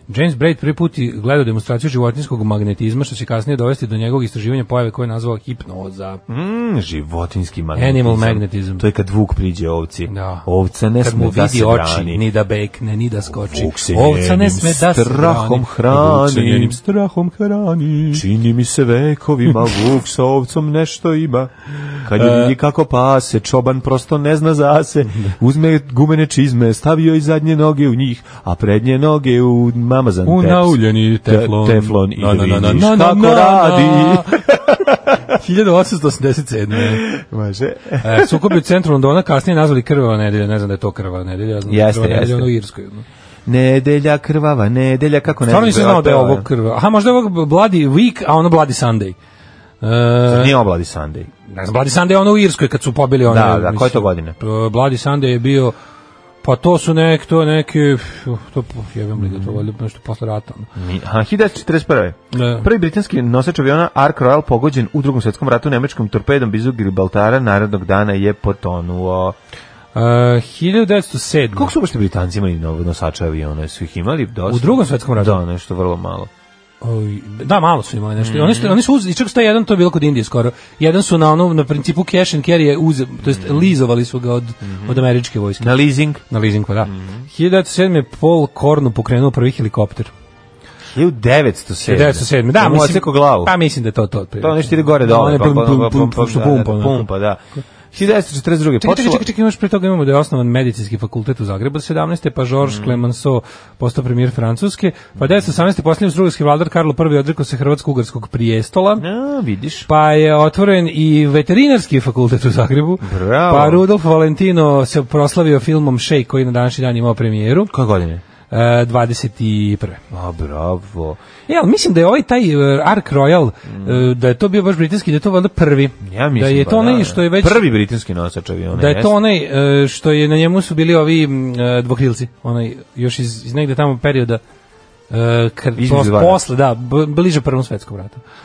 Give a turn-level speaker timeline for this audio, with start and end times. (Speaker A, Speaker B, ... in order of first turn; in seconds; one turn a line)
Speaker A: 0.1-6.2
Speaker B: 6.3-12.2
Speaker A: 7.8-8.8
Speaker A: 10.1-10.5
Speaker A: 11.0-18.2
Speaker B: 13.3-16.8
Speaker B: 18.1-35.0
Speaker A: 22.1-22.5
Speaker A: 30.2-34.6
Speaker A: 35.3-37.0
Speaker B: 36.7-38.6
Speaker A: 38.0-43.0
Speaker B: 41.7-42.5
Speaker B: 43.5-46.5
Speaker A: 45.5-49.1
Speaker A: 49.8-50.5
Speaker B: 50.3-51.3
Speaker A: 51.5-55.8
Speaker B: 53.3-54.4
Speaker A: 56.4-60.7
Speaker B: 59.2-59.6
Speaker B: 60.8-69.4
Speaker A: 62.3-62.7
Speaker A: 70.0-71.7
Speaker B: 71.5-76.3
Speaker A: 74.5-75.4
Speaker A: 76.8-90.1
Speaker B: 78.2-78.8
Speaker B: 83.2-83.7
Speaker B: 84.6-85.0
Speaker B: 85.6-86.2
Speaker B: 86.9-87.2
Speaker B: 90.9-93.5
Speaker A: 91.8-97.1
Speaker B: 94.4-99.2
Speaker A: 98.8-109.0
Speaker B: 102.6-103.0
Speaker B: 105.2-105.5
Speaker B: 109.0-109.9
Speaker A: 109.9-117.7
Speaker B: 113.0-113.8
Speaker B: 117.7-118.2
Speaker A: 118.5-120.0
Speaker B: 120.1-121.2
Speaker A: 121.5-127.7
Speaker B: 123.7-124.1
Speaker B: 126.0-129.2
Speaker A: 128.7-134.4
Speaker A: 135.1-138.2
Speaker B: 135.8-136.4